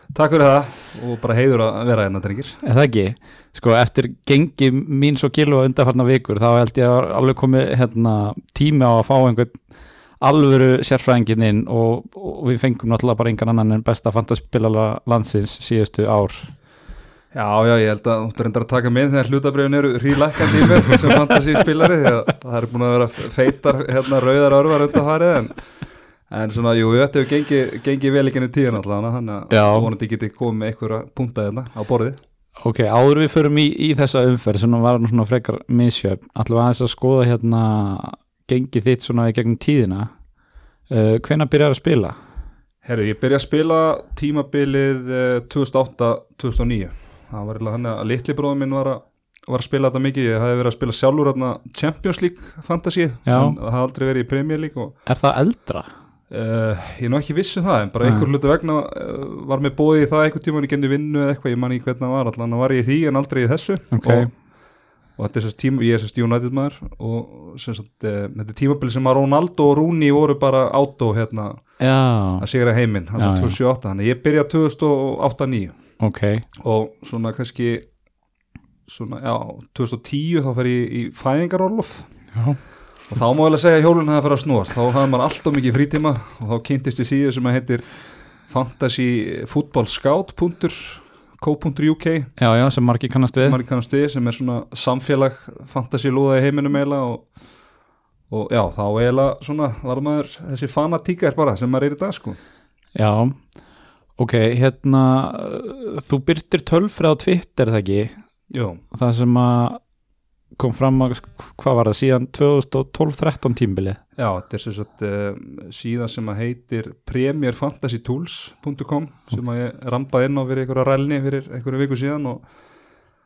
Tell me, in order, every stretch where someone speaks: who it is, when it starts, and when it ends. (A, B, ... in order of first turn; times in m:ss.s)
0:00.1-0:02.6 A
0:02.6-0:16.5 B
0:17.3-0:32.2 A
0:29.5-0:29.9 B
0:32.6-0:40.3 B
0:40.8-0:42.2 B
0:42.8-0:55.1 A
0:53.2-0:53.6 B
0:55.0-0:55.9 B
0:56.3-1:18.0 A
0:58.0-0:58.3 B
1:03.9-1:04.3 B
1:11.8-1:13.6 B
1:16.0-1:16.4 B
1:18.8-1:32.5 A
1:22.3-1:22.6 B
1:32.4-1:33.6 B
1:33.4-1:42.4 A
1:42.9-1:50.0 B
1:48.5-1:48.8 A
1:50.5-1:54.0 B
1:54.1-2:03.0 A